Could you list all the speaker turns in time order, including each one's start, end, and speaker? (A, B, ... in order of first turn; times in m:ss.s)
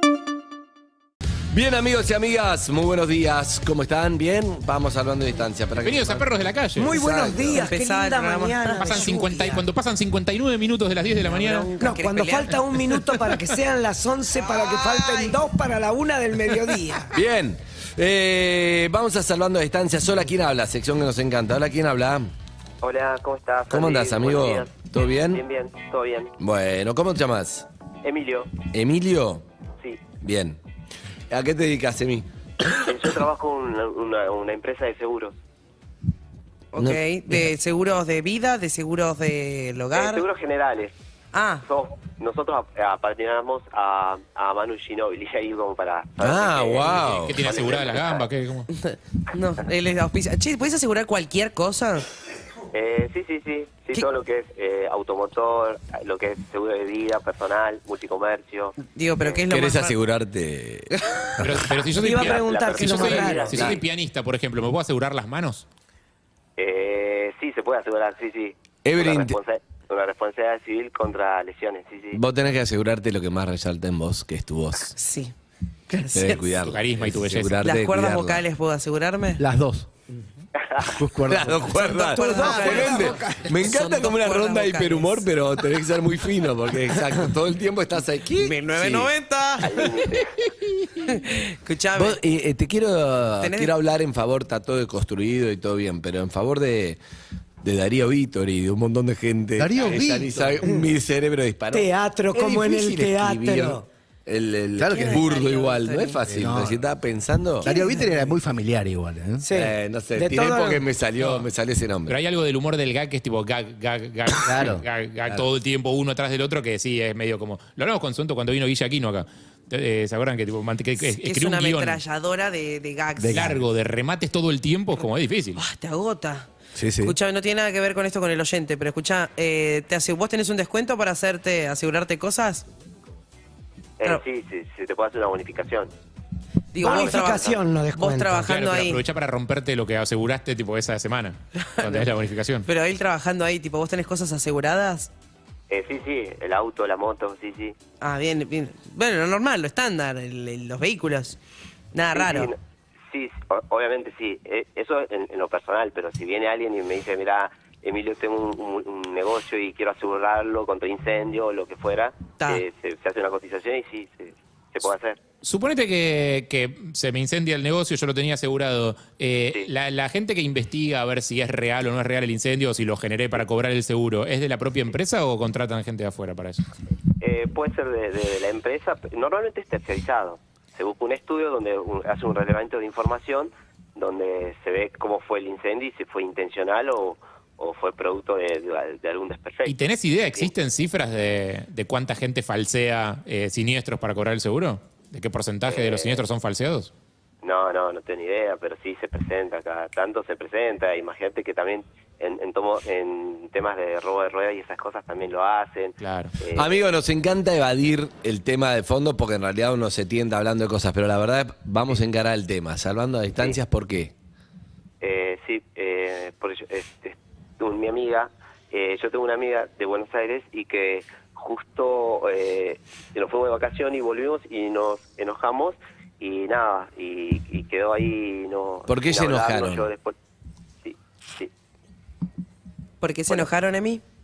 0:01.5-0:07.6 A
0:05.8-0:06.9 B
0:06.8-0:09.6 C
0:07.6-0:09.0 D
0:08.8-0:11.8 B
0:11.3-0:13.0 D
0:11.6-0:17.1 C
0:17.1-0:22.3 A
0:22.8-0:24.8 E
0:23.7-0:25.4 A
0:25.3-0:26.3 E
0:26.4-0:27.6 A
0:28.0-0:28.6 E
0:28.7-0:29.4 A
0:29.8-0:30.1 E
0:30.2-0:30.6 A
0:31.3-0:32.3 A
0:32.8-0:35.4 E
0:36.7-0:40.2 D
0:36.8-0:37.5 A
0:39.9-0:40.9 E
0:41.3-0:41.6 D
0:41.6-0:48.2 E
0:46.2-0:47.5 A
0:47.0-0:48.7 B
0:48.9-0:52.0 D
0:52.7-0:59.4 E
0:58.9-1:00.0 D
0:59.5-1:01.7 A
1:01.4-1:05.6 B
1:02.0-1:03.6 C
1:02.2-1:03.8 E
1:03.5-1:03.8 A
1:06.6-1:12.2 E
1:08.8-1:09.4 A
1:12.1-1:14.9 A
1:15.0-1:15.3 D
1:15.9-1:16.5 D
1:16.1-1:18.4 A
1:16.6-1:17.6 B
1:17.6-1:19.4 D
1:19.4-1:19.9 F
1:20.8-1:23.2 F
1:21.2-1:29.1 A
1:21.9-1:25.3 D
1:28.4-1:30.0 D
1:29.6-1:30.3 E
1:31.1-1:32.2 D
1:32.0-1:37.0 A
1:33.4-1:33.7 D
1:37.6-1:47.7 A
1:39.6-1:40.6 F
1:40.6-1:40.9 C
1:41.7-1:43.8 C
1:44.8-1:45.2 F
1:44.9-1:46.2 D
1:46.2-1:46.8 F
1:47.6-1:49.4 F
1:47.6-1:48.3 C
1:49.4-1:50.8 C
1:49.5-1:52.2 A
1:51.2-1:51.5 B
1:52.1-2:02.0 B
1:54.5-1:54.8 F
2:01.0-2:03.5 D
2:03.2-2:03.6 F
2:03.3-2:05.6 B
2:05.6-2:06.5 D
2:06.7-2:07.2 F
2:07.0-2:12.6 D
2:14.0-2:15.9 E
2:16.7-2:19.0 D
2:16.8-2:17.6 E
2:16.8-2:18.5 C
2:18.4-2:22.7 B
2:21.6-2:22.1 D
2:22.7-2:25.1 D
2:25.7-2:27.8 E
2:28.0-2:31.4 D
2:31.9-2:32.5 D
2:32.1-2:32.6 E
2:33.1-2:45.2 E
2:42.4-2:42.6 D
2:45.4-2:56.6 B
2:57.2-3:09.8 E
3:09.6-3:16.9 B
3:15.7-3:16.2 E
3:17.4-3:26.8 E
3:26.0-3:26.4 B
3:26.5-3:34.1 A
3:35.0-3:50.1 E
3:48.9-3:49.9 A
3:50.8-3:51.5 E
3:53.0-3:54.0 D